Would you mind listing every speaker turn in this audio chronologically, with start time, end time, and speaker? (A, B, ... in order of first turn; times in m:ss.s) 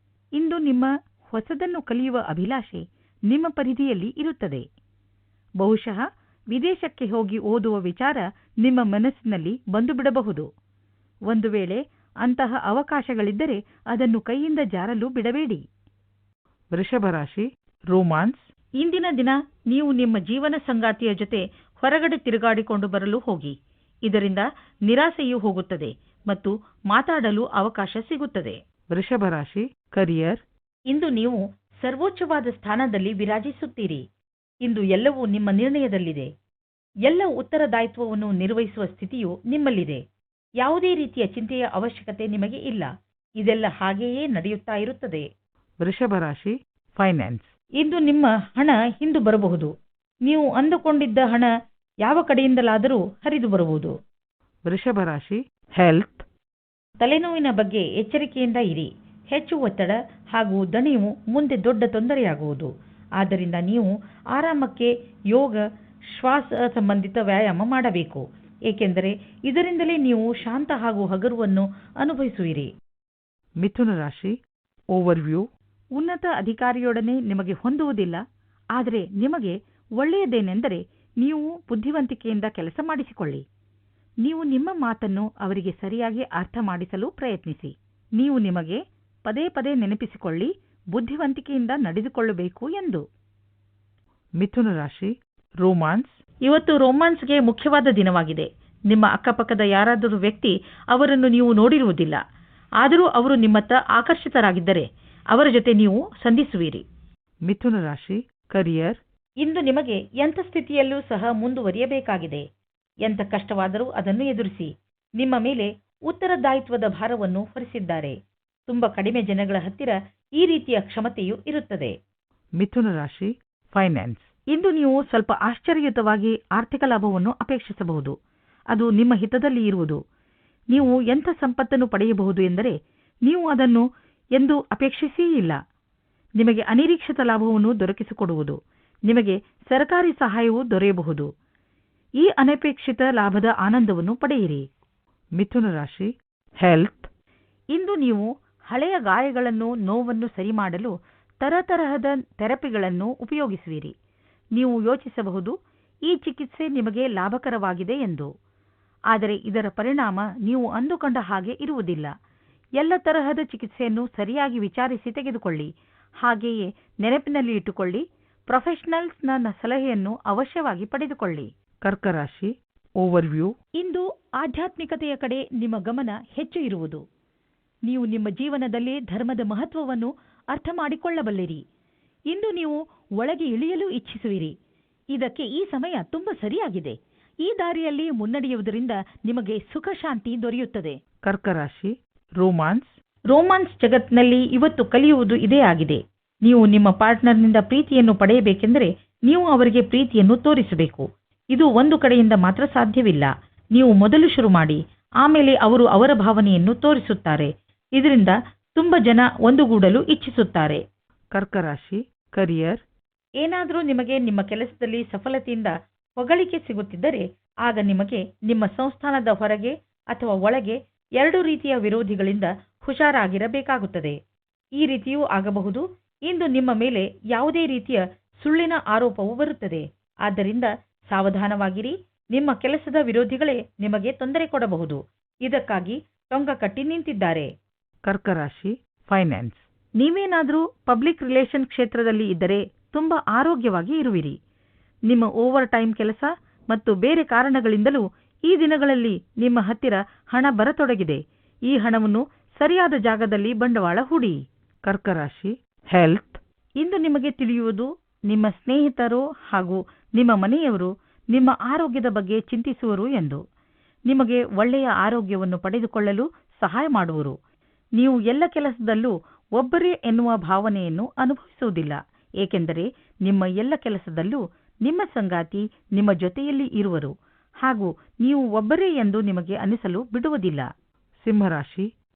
0:00.4-0:04.6 A
0:05.6-0:10.4 A
0:11.3-0:15.6 A
0:16.8-0:18.4 B
0:18.8-0:23.5 A
0:24.0-0:28.6 A
0:28.9-0:30.4 B
0:30.9-0:34.0 A
0:34.6-0:36.3 A
0:37.0-0:40.0 A
0:40.6-0:45.2 A
0:45.8-0:47.5 B
0:45.9-0:46.5 A
0:47.8-0:49.7 A
0:50.2-0:51.5 A
0:52.0-0:53.9 A
0:54.7-0:55.2 A
0:54.7-0:55.4 B
0:55.8-0:56.1 A
0:57.0-1:05.6 A
1:06.1-1:12.7 A
1:13.6-1:14.3 B
1:15.0-1:15.4 B
1:15.0-1:15.4 A
1:16.0-1:18.2 A
1:18.7-1:23.4 A
1:24.2-1:33.0 A
1:34.4-1:35.1 B
1:35.6-1:36.1 B
1:36.4-1:42.2 A
1:42.8-1:46.8 A
1:47.5-1:49.0 B
1:49.4-1:52.4 A
1:53.0-1:58.1 A
1:58.7-2:01.9 A
2:02.6-2:04.2 B
2:03.8-2:08.1 A
2:08.7-2:10.0 A
2:10.7-2:12.7 A
2:13.2-2:13.8 A
2:14.4-2:15.6 A
2:16.4-2:18.6 A
2:19.1-2:21.3 A
2:22.2-2:24.6 A
2:25.4-2:26.1 B
2:26.6-2:27.1 B
2:27.7-2:33.9 A
2:34.5-2:35.5 A
2:36.0-2:38.3 A
2:39.1-2:42.1 A
2:42.8-2:45.7 A
2:46.2-2:51.5 A
2:51.8-2:52.5 B
2:53.0-2:57.0 A
2:53.1-2:53.5 B
2:57.9-3:01.6 A
3:02.3-3:04.5 A
3:05.1-3:10.9 A
3:11.3-3:11.9 B
3:12.4-3:12.9 B
3:13.3-3:30.8 A
3:31.4-3:32.8 B
3:33.4-3:44.2 A
3:44.8-3:57.5 A
3:58.1-3:58.7 B
3:58.1-3:59.5 A
3:59.3-3:59.6 B
4:00.0-4:04.4 A
4:05.1-4:14.4 A
4:14.9-4:16.4 B
4:16.8-4:23.4 A
4:24.1-4:27.4 A
4:28.0-4:37.1 A
4:37.6-4:40.7 A
4:41.2-4:41.8 B